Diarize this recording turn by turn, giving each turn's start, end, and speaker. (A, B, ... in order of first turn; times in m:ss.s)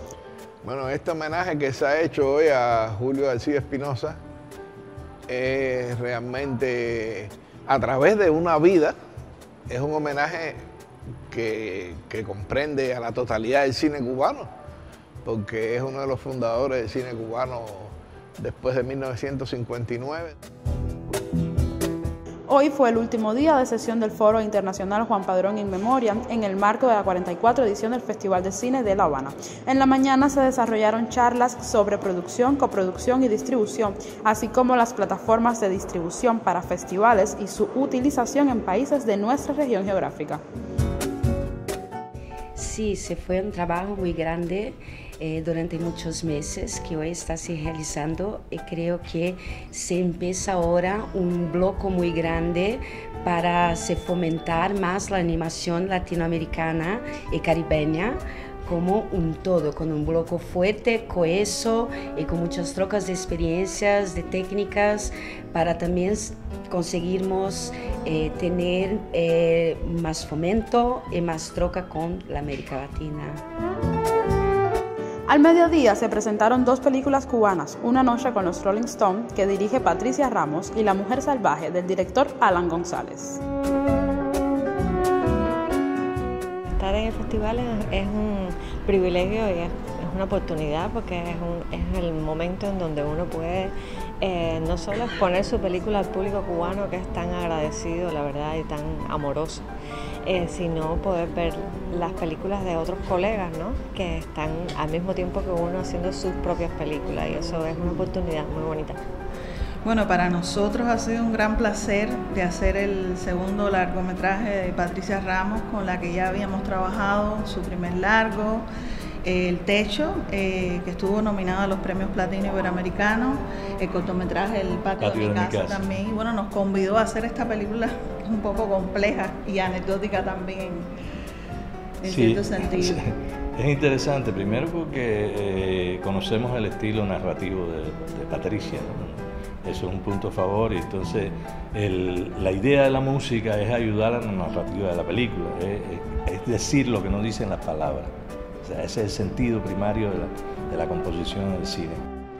0:00.6-0:04.2 A
0:05.3-0:08.9 A
0:09.7-0:10.6 A
0:11.3-0:14.5 A
0:15.2-0:20.3 A
0:22.5-0:40.4 B
0:42.5-1:13.4 C
1:15.3-1:23.4 B
1:26.8-1:39.6 D
1:40.2-1:49.0 D
1:49.8-1:58.6 E
1:59.2-2:10.8 E
2:05.0-2:05.9 F
2:12.0-2:13.0 E
2:12.0-2:28.1 F
2:28.6-2:32.0 F